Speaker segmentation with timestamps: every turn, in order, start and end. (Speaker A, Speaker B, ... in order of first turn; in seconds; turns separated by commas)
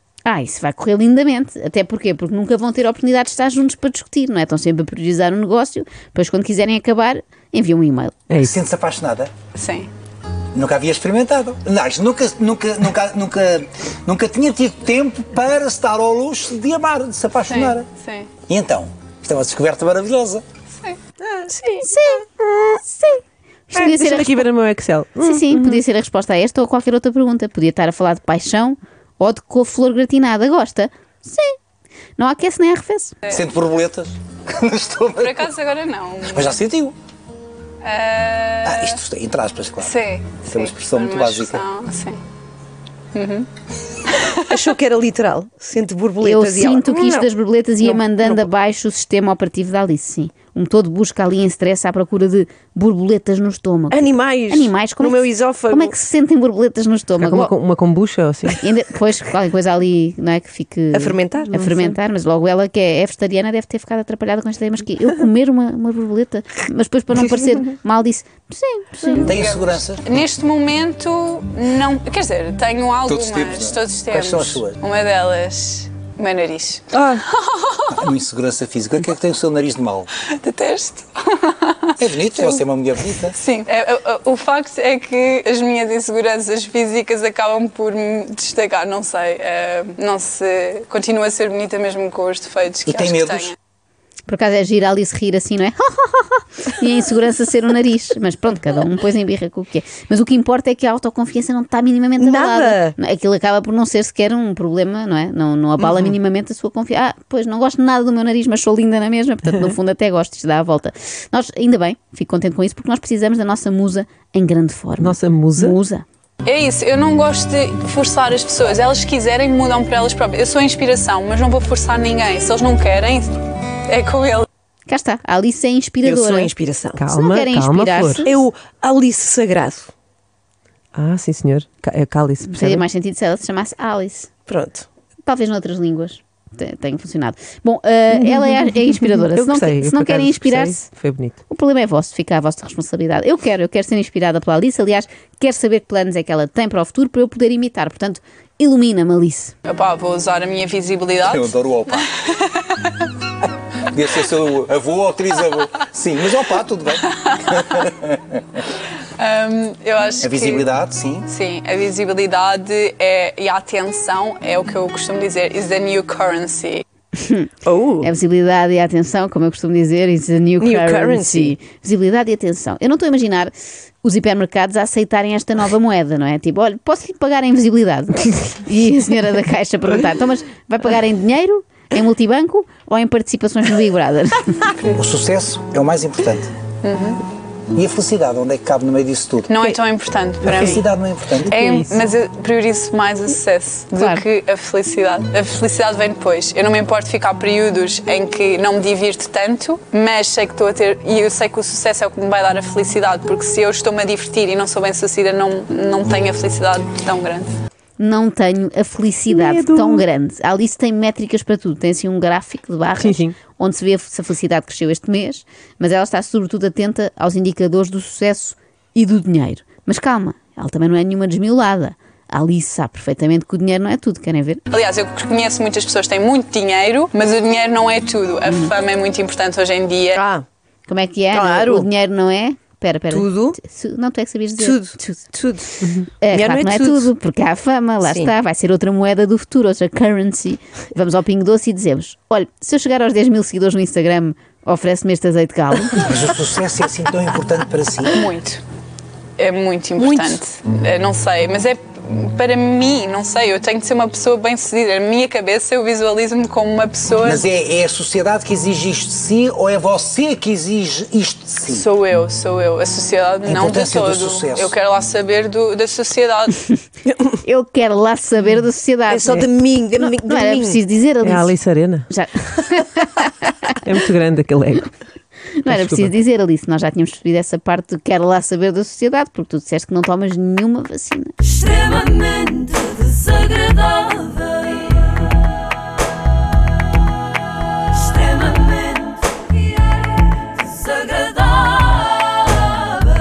Speaker A: 0.2-8.3, Speaker B: 8.3-8.6, Speaker C: 8.4-9.3, Speaker D: 9.6-9.9, Speaker C: 10.6-17.9, Speaker D: 17.4-18.3, Speaker C: 18.5-20.4, Speaker A: 21.8-24.5, Speaker B: 23.7-25.8, Speaker A: 25.2-31.6, Speaker A: 32.2-33.2, Speaker C: 33.3-35.4, Speaker D: 35.1-36.6, Speaker C: 36.3-37.0, Speaker D: 37.8-39.0, Speaker C: 38.6-40.0, Speaker D: 39.8-42.2, Speaker C: 40.5-41.6, Speaker D: 43.1-43.5, Speaker D: 44.0-44.6, Speaker E: 44.5-47.3, Speaker A: 46.2-57.5, Speaker E: 47.8-48.5, Speaker E: 53.9-56.0, Speaker B: 57.2-58.6, Speaker A: 58.6-69.4, Speaker E: 60.9-61.8, Speaker C: 69.2-70.2, Speaker D: 69.3-78.0, Speaker C: 73.1-74.8, Speaker B: 76.9-77.2, Speaker C: 77.9-80.1, Speaker D: 80.2-82.6, Speaker C: 82.0-83.3, Speaker D: 83.2-93.6, Speaker C: 92.9-93.5, Speaker A: 94.3-116.0, Speaker E: 102.2-103.0, Speaker E: 105.8-106.0, Speaker B: 115.0-115.8, Speaker D: 116.4-124.5, Speaker A: 124.9-126.5, Speaker E: 126.0-127.0, Speaker B: 127.0-128.3, Speaker A: 127.1-128.3, Speaker E: 128.2-129.9, Speaker B: 130.9-132.8, Speaker A: 132.4-134.3, Speaker E: 134.5-134.9, Speaker A: 135.2-140.9, Speaker B: 139.2-141.4, Speaker A: 141.5-149.6, Speaker D: 149.7-153.1, Speaker C: 151.2-152.1, Speaker C: 153.9-158.2, Speaker D: 158.8-160.7, Speaker C: 160.2-161.3, Speaker D: 161.2-166.8, Speaker A: 167.2-167.5, Speaker E: 167.7-168.1, Speaker A: 168.0-173.5, Speaker E: 170.6-171.6, Speaker A: 174.0-184.7, Speaker C: 185.0-186.5, Speaker D: 186.8-187.2, Speaker C: 187.7-189.5, Speaker D: 189.5-190.8, Speaker C: 190.5-191.5, Speaker D: 191.5-207.5, Speaker B: 191.5-192.0, Speaker A: 193.9-194.2, Speaker A: 208.0-224.6, Speaker B: 209.3-210.1, Speaker B: 213.0-213.4, Speaker D: 224.7-230.2, Speaker A: 228.4-228.7, Speaker E: 230.2-230.5, Speaker A: 230.9-235.2, Speaker E: 231.3-231.9, Speaker E: 233.1-233.6, Speaker E: 234.6-237.1, Speaker A: 236.2-246.2, Speaker E: 238.0-238.3, Speaker C: 246.0-248.2, Speaker D: 248.0-248.6, Speaker D: 249.4-257.4, Speaker E: 250.0-250.4, Speaker C: 257.2-261.9, Speaker D: 261.7-266.7, Speaker C: 263.4-264.7, Speaker A: 267.4-271.6, Speaker E: 269.1-270.8, Speaker B: 271.2-272.1, Speaker A: 272.1-273.3, Speaker B: 273.9-274.9, Speaker A: 275.6-281.3, Speaker B: 275.7-276.1